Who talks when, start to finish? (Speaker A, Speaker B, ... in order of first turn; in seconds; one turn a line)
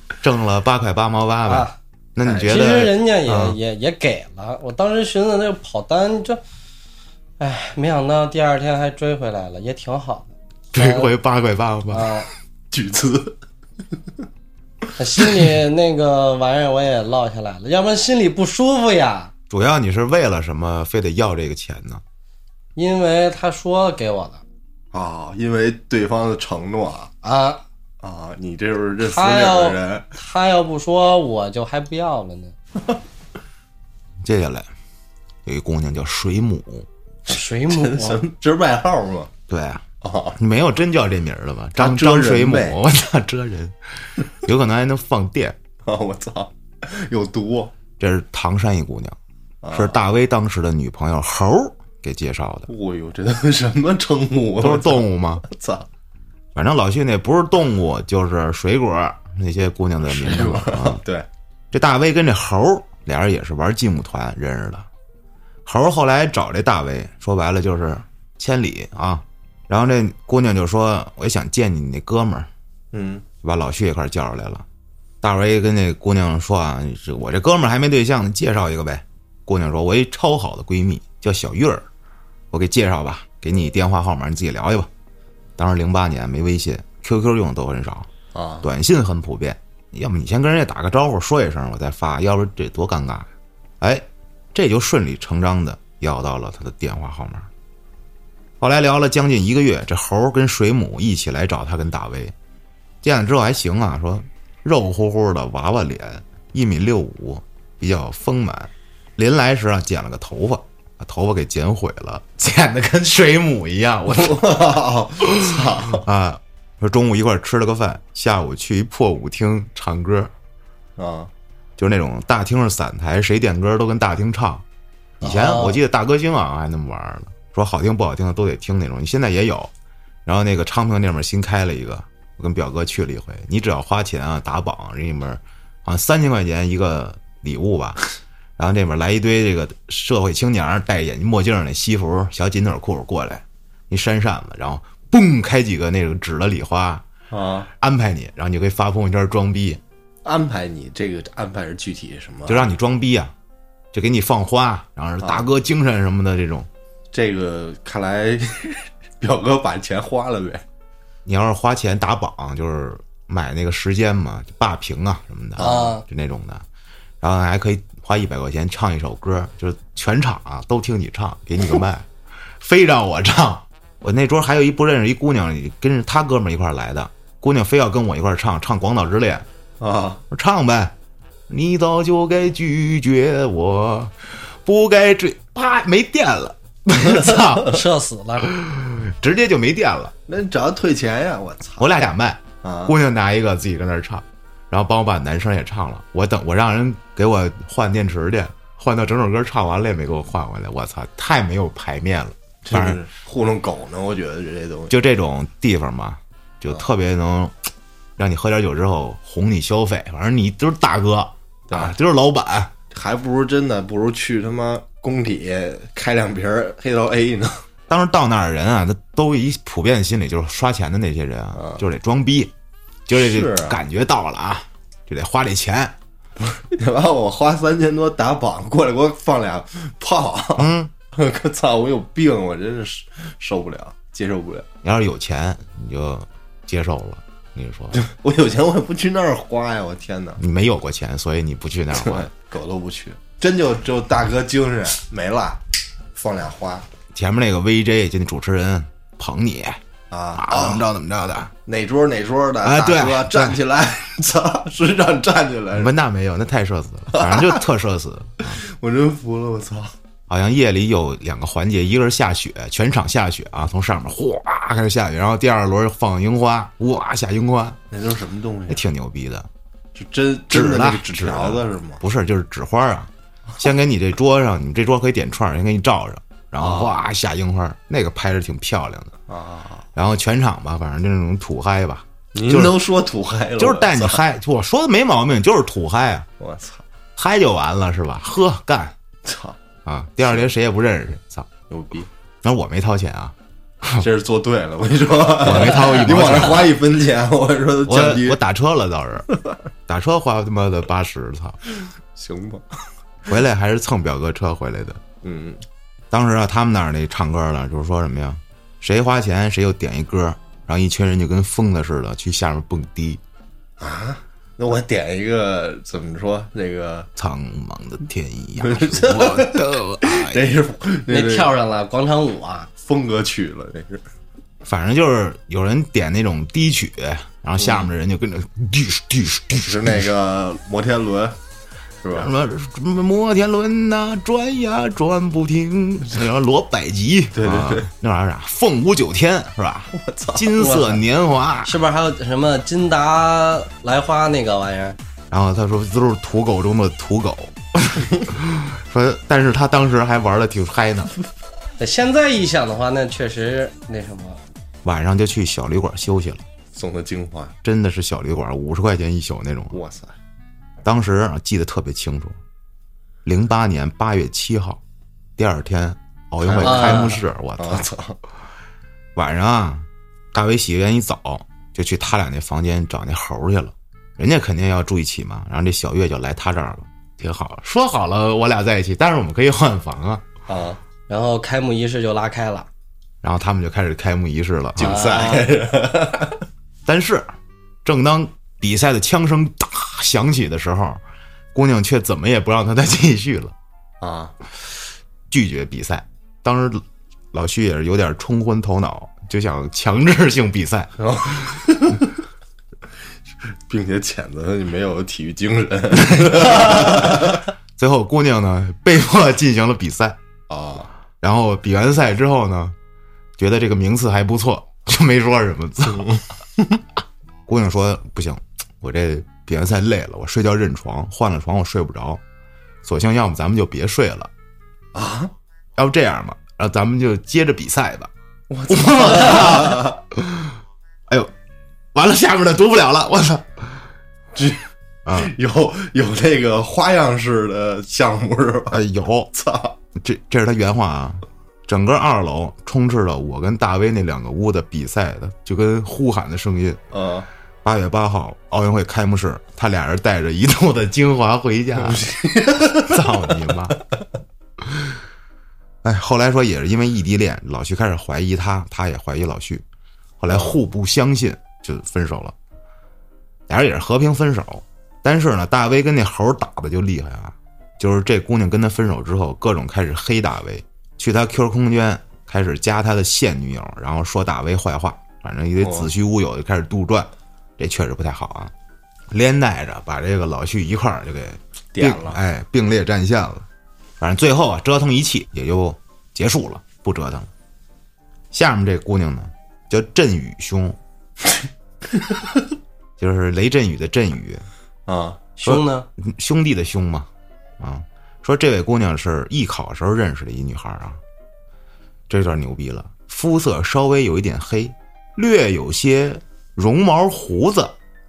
Speaker A: 0.2-3.6
Speaker B: 1.4-1.7
Speaker C: 2.2-2.5
Speaker B: 2.4-6.4
Speaker B: 7.4-11.1
Speaker A: 10.7-12.2
Speaker B: 11.9-12.3
Speaker C: 12.7-13.3
Speaker B: 15.0-19.3
Speaker A: 19.5-22.0
Speaker B: 22.8-24.4
Speaker C: 24.9-27.1
Speaker B: 27.2-27.6
Speaker C: 28.0-30.1
Speaker B: 29.0-32.5
Speaker A: 34.2-34.7
Speaker A: 35.5-36.9
Speaker B: 37.3-38.2
Speaker C: 37.3-39.3
Speaker A: 39.5-39.8
Speaker C: 40.0-40.4
Speaker A: 40.4-43.8
Speaker C: 41.8-42.8
Speaker A: 44.3-45.6
Speaker C: 45.9-47.7
Speaker A: 48.0-49.2
Speaker C: 49.6-50.0
Speaker A: 49.7-52.7
Speaker C: 52.7-55.9
Speaker A: 54.6-55.4
Speaker A: 56.5-61.0
Speaker C: 60.0-61.2
Speaker A: 61.7-64.9
Speaker A: 65.7-72.5
Speaker C: 72.9-73.2
Speaker A: 73.4-74.6
Speaker A: 75.2-81.8
Speaker A: 82.5-84.9
Speaker A: 85.6-88.1
Speaker C: 88.3-88.7
Speaker A: 88.6-93.3
Speaker A: 93.8-97.5
Speaker A: 98.6-102.3
Speaker A: 103.0-114.6
Speaker C: 114.1-116.0
Speaker A: 115.2-120.3
Speaker C: 121.0-121.3
Speaker A: 121.8-124.6
Speaker A: 125.2-129.7
Speaker B: 125.2-125.8
Speaker A: 130.2-138.0
Speaker A: 138.6-147.0
Speaker C: 147.3-147.7
Speaker A: 147.8-149.8
Speaker C: 150.2-152.7
Speaker A: 152.5-153.3
Speaker A: 153.9-156.7
Speaker C: 157.1-160.6
Speaker A: 161.2-166.6
Speaker C: 165.6-165.9
Speaker B: 165.6-166.0
Speaker A: 167.2-172.1
Speaker A: 172.6-179.4
Speaker C: 179.8-180.2
Speaker A: 180.3-180.9
Speaker A: 181.5-187.8
Speaker B: 187.5-188.5
Speaker A: 188.4-190.1
Speaker C: 190.3-192.0
Speaker A: 191.8-203.0
Speaker C: 192.6-192.9
Speaker C: 202.6-204.9
Speaker A: 204.9-207.5
Speaker A: 208.2-212.7
Speaker C: 211.7-211.9
Speaker C: 212.9-217.6
Speaker A: 217.9-222.5
Speaker C: 221.6-221.8
Speaker A: 223.1-225.9
Speaker C: 223.1-223.8
Speaker C: 226.4-234.7
Speaker A: 230.6-230.9
Speaker A: 234.8-238.0
Speaker C: 237.9-240.4
Speaker A: 240.4-242.3
Speaker C: 241.9-245.6
Speaker C: 246.1-246.8
Speaker A: 247.1-249.8
Speaker C: 250.1-250.8
Speaker A: 250.3-251.5
Speaker C: 251.7-255.9
Speaker A: 252.6-253.6
Speaker A: 255.7-258.6
Speaker C: 257.1-257.6
Speaker C: 258.5-259.9
Speaker A: 260.3-267.8
Speaker C: 267.9-268.8
Speaker A: 268.7-269.5
Speaker C: 269.9-272.0
Speaker A: 270.5-279.1
Speaker C: 276.6-276.9
Speaker C: 279.3-279.8
Speaker A: 279.9-282.8
Speaker C: 282.3-284.2
Speaker A: 283.6-286.3
Speaker C: 286.4-286.8
Speaker A: 287.1-288.9
Speaker C: 289.2-289.6
Speaker A: 289.9-291.5
Speaker C: 291.7-292.1
Speaker A: 292.4-294.0
Speaker C: 294.0-298.4
Speaker A: 295.4-296.8
Speaker A: 297.9-299.3
Speaker A: 299.9-301.6
Speaker C: 302.1-302.8
Speaker A: 303.3-305.0
Speaker C: 305.2-305.6
Speaker A: 306.1-313.2
Speaker C: 313.8-317.1
Speaker A: 317.1-320.4
Speaker C: 318.6-321.5
Speaker B: 321.1-322.7
Speaker C: 322.8-324.0
Speaker A: 324.6-330.1
Speaker C: 327.6-327.9
Speaker C: 329.6-331.4
Speaker C: 332.0-332.3
Speaker A: 332.1-341.8
Speaker C: 337.3-337.9
Speaker C: 339.9-340.7
Speaker B: 340.6-341.0
Speaker B: 341.6-345.0
Speaker A: 345.3-351.1
Speaker B: 351.8-354.4
Speaker A: 354.8-356.4
Speaker C: 356.7-357.5
Speaker A: 357.6-359.8
Speaker C: 359.7-360.1
Speaker A: 360.8-362.4
Speaker A: 363.2-364.8
Speaker A: 365.4-367.9
Speaker C: 366.4-368.2
Speaker B: 366.6-367.2
Speaker A: 369.1-380.2
Speaker C: 380.5-380.8
Speaker B: 381.1-382.7
Speaker A: 383.2-385.4
Speaker C: 384.8-386.4
Speaker B: 384.8-385.4
Speaker A: 386.9-387.3
Speaker A: 387.8-391.0
Speaker A: 391.5-393.5
Speaker C: 394.0-394.3
Speaker A: 395.3-401.5
Speaker C: 401.0-402.1
Speaker C: 403.7-407.4
Speaker A: 406.1-407.2
Speaker A: 407.8-410.2
Speaker C: 410.5-410.9
Speaker A: 411.2-412.7
Speaker A: 413.4-416.2
Speaker A: 417.5-422.2
Speaker A: 422.8-424.3
Speaker C: 424.9-425.3
Speaker A: 425.8-428.1
Speaker C: 428.5-430.0
Speaker A: 428.7-430.6
Speaker A: 431.9-433.6
Speaker C: 434.3-438.8
Speaker A: 435.1-435.3
Speaker A: 438.7-439.3
Speaker C: 439.3-439.7
Speaker A: 439.9-446.8
Speaker C: 446.9-447.3
Speaker A: 447.6-453.8
Speaker C: 451.8-453.1
Speaker A: 454.6-455.0
Speaker A: 455.8-459.6
Speaker A: 460.2-462.3
Speaker C: 460.3-460.6
Speaker A: 463.5-478.5
Speaker C: 475.6-475.9
Speaker A: 479.1-483.4
Speaker C: 481.7-482.2
Speaker A: 484.0-487.3
Speaker A: 488.3-490.8
Speaker A: 493.0-494.4
Speaker C: 494.9-495.2
Speaker B: 495.4-495.9
Speaker A: 495.4-501.0
Speaker A: 502.1-507.7